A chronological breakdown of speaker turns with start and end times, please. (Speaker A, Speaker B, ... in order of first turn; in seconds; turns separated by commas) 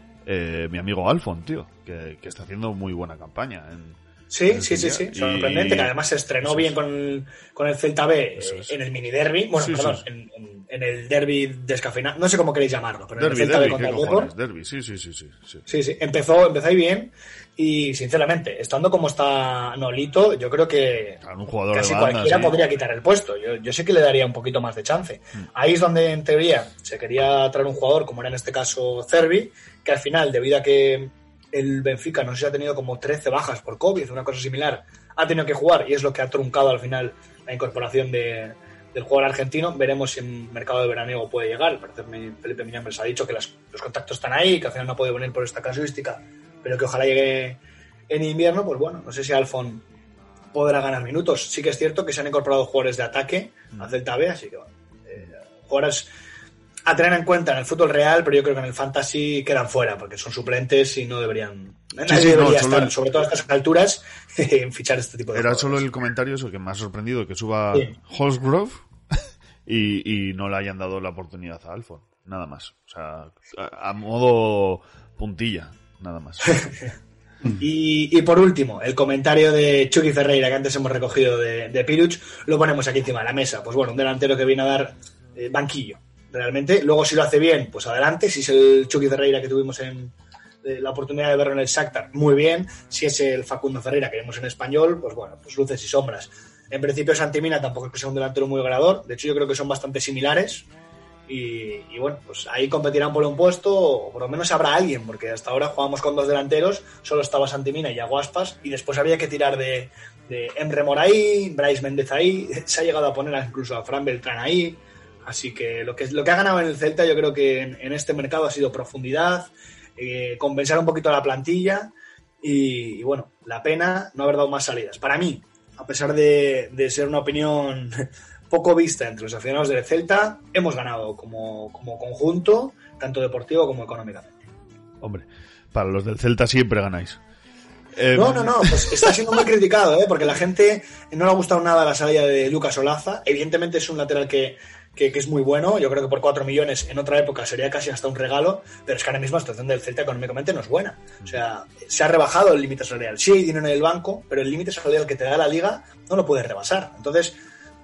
Speaker A: 0.2-4.0, Speaker B: 4.3-14.3, Speaker A: 4.5-5.9, Speaker A: 6.4-6.7, Speaker A: 8.4-8.7, Speaker A: 9.6-10.0, Speaker A: 13.2-15.6, Speaker B: 15.7-21.2, Speaker A: 21.2-22.6, Speaker B: 21.7-47.6, Speaker B: 48.1-49.8, Speaker B: 50.5-56.1, Speaker B: 56.9-65.8, Speaker A: 62.1-62.9, Speaker A: 65.3-68.8, Speaker A: 69.7-76.6, Speaker B: 76.5-76.7, Speaker B: 77.6-90.1, Speaker B: 90.6-100.7, Speaker B: 101.3-134.4, Speaker A: 135.0-137.2, Speaker A: 137.9-139.1, Speaker B: 138.1-157.3